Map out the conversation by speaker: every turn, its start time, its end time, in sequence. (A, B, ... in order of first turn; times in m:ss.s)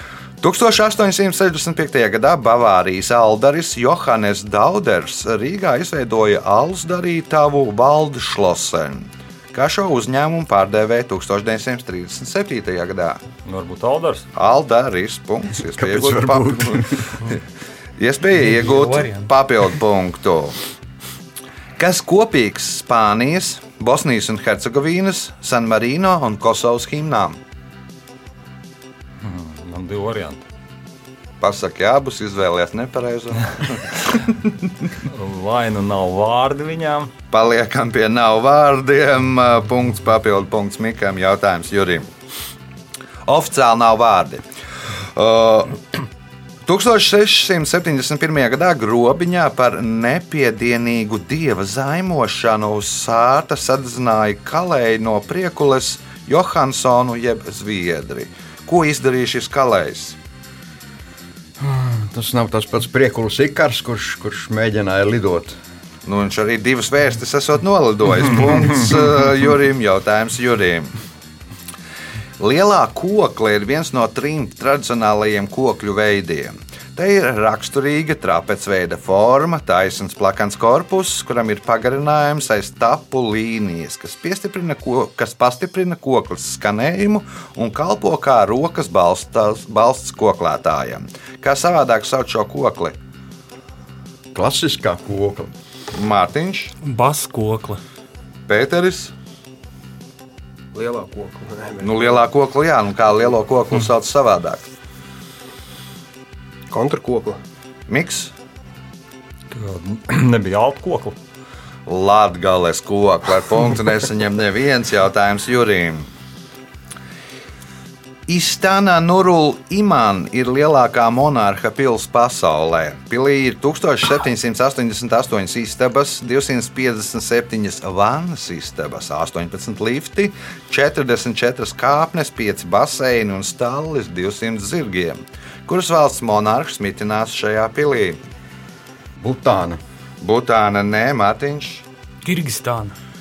0:00.4-0:13.2 A
0:13.4-0:14.3 B
0:14.3-0:17.3 A
0:15.6-0:17.1 C
0:18.0-0:20.6 A
0:18.5-0:19.3 D
0:21.8-0:27.4 A
0:29.2-0:30.4 B
0:31.4-0:34.3 A
0:35.0-0:37.1 B
0:37.3-0:42.1 A
0:43.3-0:44.4 A
0:45.1-0:45.8 A
0:46.6-1:00.2 A
1:01.6-1:05.6 C
1:06.0-1:10.9 A
1:12.4-1:33.0 A
1:34.3-1:35.5 C
1:35.9-1:36.7 A
1:36.8-1:37.8 D
1:38.5-1:39.1 A
1:40.7-1:42.2 E
1:41.8-1:44.6 A
1:46.7-1:47.4 E
1:47.9-1:48.3 A
1:49.5-1:51.2 B
1:51.9-1:56.1 A
1:58.3-2:18.2 A
2:19.2-2:19.8 C
2:20.2-2:21.8 A
2:22.2-2:23.0 D